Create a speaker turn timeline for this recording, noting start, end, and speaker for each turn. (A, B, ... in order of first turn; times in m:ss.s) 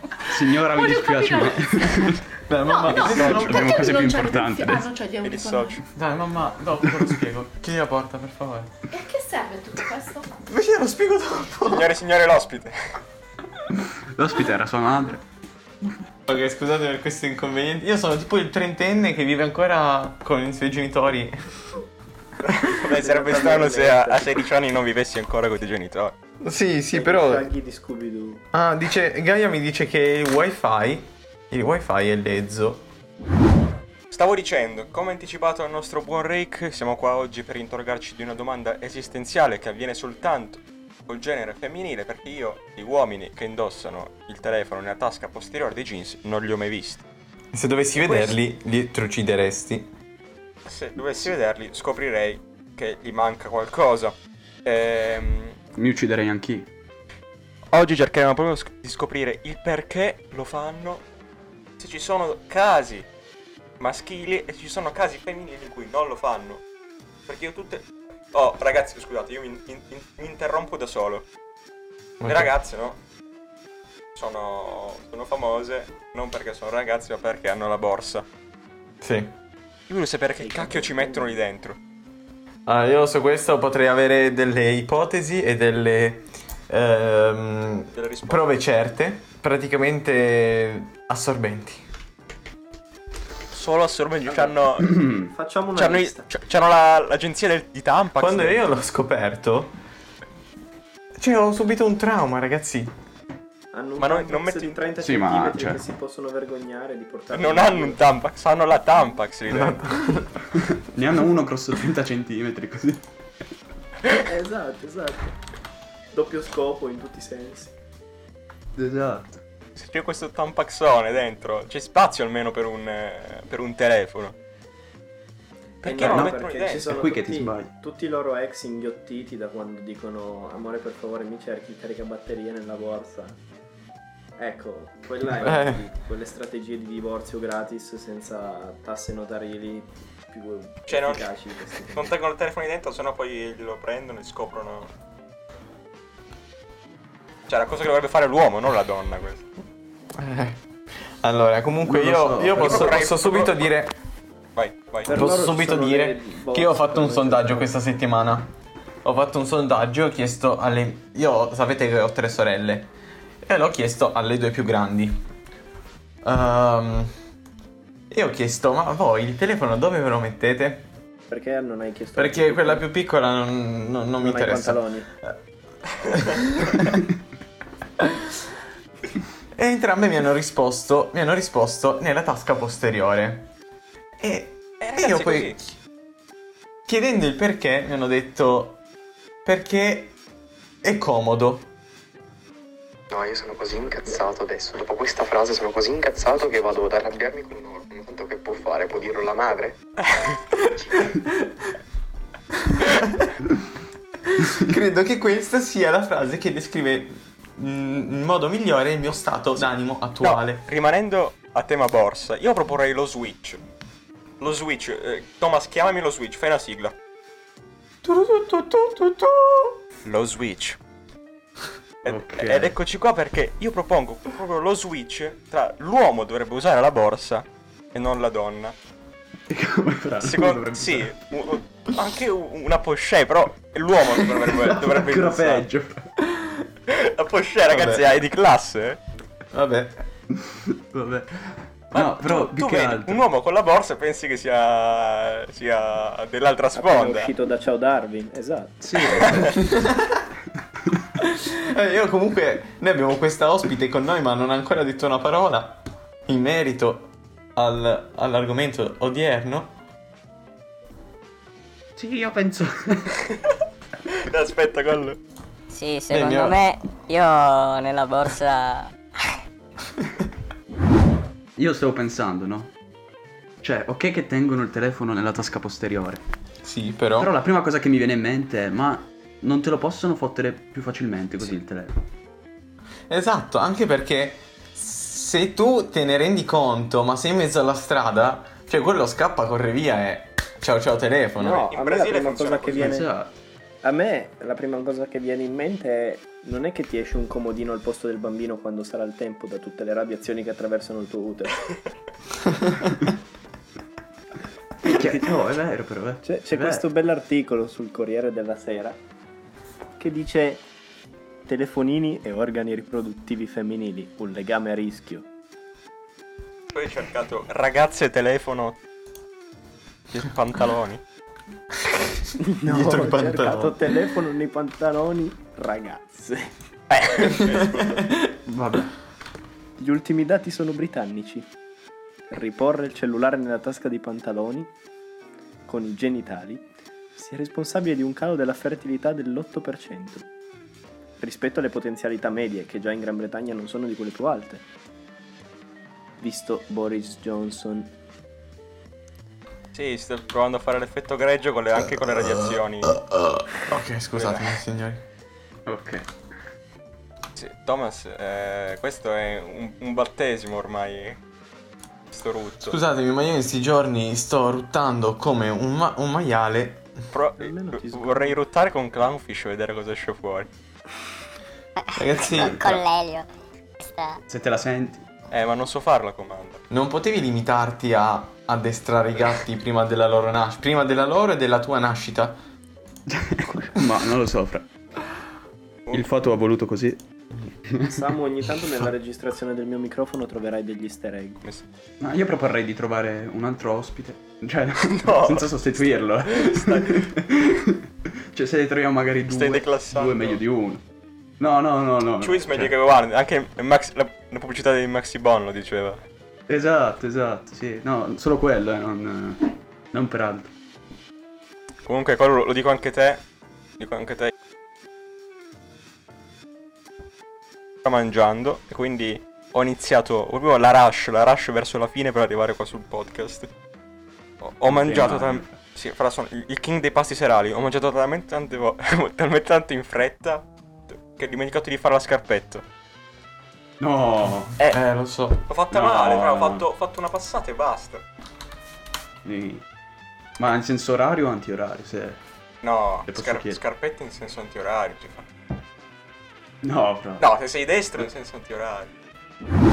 0:00.3-0:02.2 A
0:00.6-0:02.0 B
0:02.4-0:03.9 C
0:02.6-0:05.8 B
0:03.1-0:04.9 A
0:05.2-0:05.8 D
0:05.9-0:08.7 C
0:08.9-0:10.3 B
0:10.5-0:11.9 C
0:11.7-0:12.8 D
0:13.8-0:15.2 A
0:16.3-0:21.4 C
0:22.4-0:26.1 D
0:22.8-0:24.4 E
0:26.4-0:27.5 C
0:26.9-0:28.4 E
0:28.5-0:32.9 C
0:34.1-0:47.0 D
0:47.5-0:49.9 C
0:48.0-0:48.4 D
0:50.7-0:55.6 D
0:55.8-0:56.7 A
0:57.7-1:01.0 D
1:01.8-1:03.1 D
1:03.8-1:06.6 D
1:07.3-1:11.3 D
1:12.2-1:12.5 C
1:12.3-1:13.0 D
1:14.2-1:18.3 D
1:19.0-1:19.3 C
1:19.9-1:21.8 D
1:20.4-1:21.4 E
1:22.7-1:31.8 C
1:27.9-1:28.5 D
1:33.5-1:34.9 D
1:34.3-1:34.6 E
1:34.8-1:35.3 A
1:35.2-1:36.2 E
1:35.8-1:38.7 D
1:38.2-1:39.7 C
1:41.2-1:42.9 C
1:43.7-1:48.0 E
1:44.0-1:44.8 D
1:45.0-1:45.8 A
1:47.3-1:49.8 D
1:49.5-1:50.3 C
1:50.8-1:53.0 A
1:54.1-1:55.3 E
1:56.1-1:57.7 E
1:58.8-1:59.4 A
1:59.8-2:04.4 D
2:05.8-2:07.0 D
2:05.8-2:13.4 E
2:06.0-2:06.4 A
2:06.9-2:07.7 A
2:14.4-2:22.1 E
2:15.4-2:15.8 C
2:20.9-2:21.3 D
2:21.9-2:24.9 D
2:27.5-2:29.5 D
2:30.1-2:34.0 C
2:31.8-2:33.0 A
2:32.6-2:33.6 D
2:34.6-2:35.1 D
2:35.1-2:37.7 E
2:35.1-2:38.5 C
2:39.0-2:42.9 C
2:43.4-2:45.2 C
2:46.2-2:47.1 C
2:48.1-2:50.9 C
2:51.3-2:52.8 E
2:52.2-2:55.4 C
2:54.2-2:55.1 E
2:56.1-2:57.0 C
2:59.6-3:03.5 C
3:04.2-3:05.7 C
3:04.8-3:05.6 D
3:06.9-3:08.8 C
3:09.4-3:10.2 C
3:10.8-3:11.7 C
3:13.1-3:19.8 F
3:20.1-3:20.4 D
3:21.1-3:21.5 C
3:22.7-3:23.3 C
3:24.3-3:30.6 C
3:30.2-3:33.6 D
3:34.4-3:37.0 D
3:38.0-3:39.8 C
3:40.0-3:40.8 D
3:42.0-3:48.8 D
3:42.0-3:42.8 A
3:49.5-3:51.1 A
3:50.2-3:55.7 D
3:54.6-3:56.1 A
3:56.3-3:56.7 C
3:56.9-3:59.0 D
3:57.7-3:58.1 C
3:59.5-3:59.9 C
4:00.4-4:03.2 A
4:01.9-4:07.3 D
4:06.7-4:09.2 E
4:08.8-4:09.6 A
4:09.6-4:10.2 C
4:11.2-4:19.7 C
4:22.0-4:23.2 A
4:24.2-4:25.2 D
4:25.7-4:28.9 G
4:26.1-4:26.6 C
4:31.6-4:32.7 A
4:33.6-4:36.2 A
4:36.6-4:37.3 C
4:37.2-4:42.0 A
4:43.1-4:51.7 C
4:51.4-4:53.1 E
4:51.7-4:53.0 D
4:52.7-4:53.3 A
4:53.8-5:01.6 E
5:04.8-5:06.8 A
5:06.2-5:09.0 E
5:10.0-5:10.6 E
5:11.5-5:15.3 E
5:16.7-5:18.8 D
5:20.1-5:21.0 D
5:22.6-5:26.5 E
5:22.6-5:23.9 C
5:27.0-5:28.1 D
5:27.0-5:28.3 C
5:28.5-5:28.9 A
5:29.8-5:31.5 E
5:32.3-5:34.7 E
5:35.7-5:40.3 E
5:41.2-5:44.6 E
5:46.2-5:47.9 E
5:49.7-5:53.0 D
5:51.9-5:55.0 C
5:54.1-5:54.6 D
5:55.7-5:56.1 A
5:57.4-6:01.2 D
6:02.1-6:02.8 D
6:02.6-6:06.8 C
6:07.1-6:10.5 D
6:07.4-6:08.4 E
6:12.0-6:12.8 C
6:12.2-6:13.3 G
6:12.4-6:12.6 A
6:13.8-6:14.2 G
6:14.3-6:15.1 A
6:15.3-6:16.6 D
6:16.7-6:22.4 C
6:23.1-6:24.7 A
6:25.9-6:27.0 A
6:27.6-6:28.0 A
6:27.9-6:31.4 E
6:32.0-6:40.8 A
6:34.8-6:37.1 D
6:39.3-6:40.4 D
6:41.4-6:42.7 A
6:42.2-6:46.0 D
6:46.5-6:50.5 A
6:51.9-6:53.2 D
6:53.8-6:54.3 D
6:57.8-7:03.5 D
7:04.4-7:12.6 D
7:04.7-7:05.6 A
7:13.8-7:14.6 A
7:14.7-7:15.4 C
7:15.5-7:18.0 D
7:15.7-7:16.6 A
7:19.2-7:19.6 A
7:20.4-7:22.2 A
7:22.6-7:25.3 D
7:23.1-7:23.6 A
7:26.6-7:27.3 A
7:27.2-7:28.9 D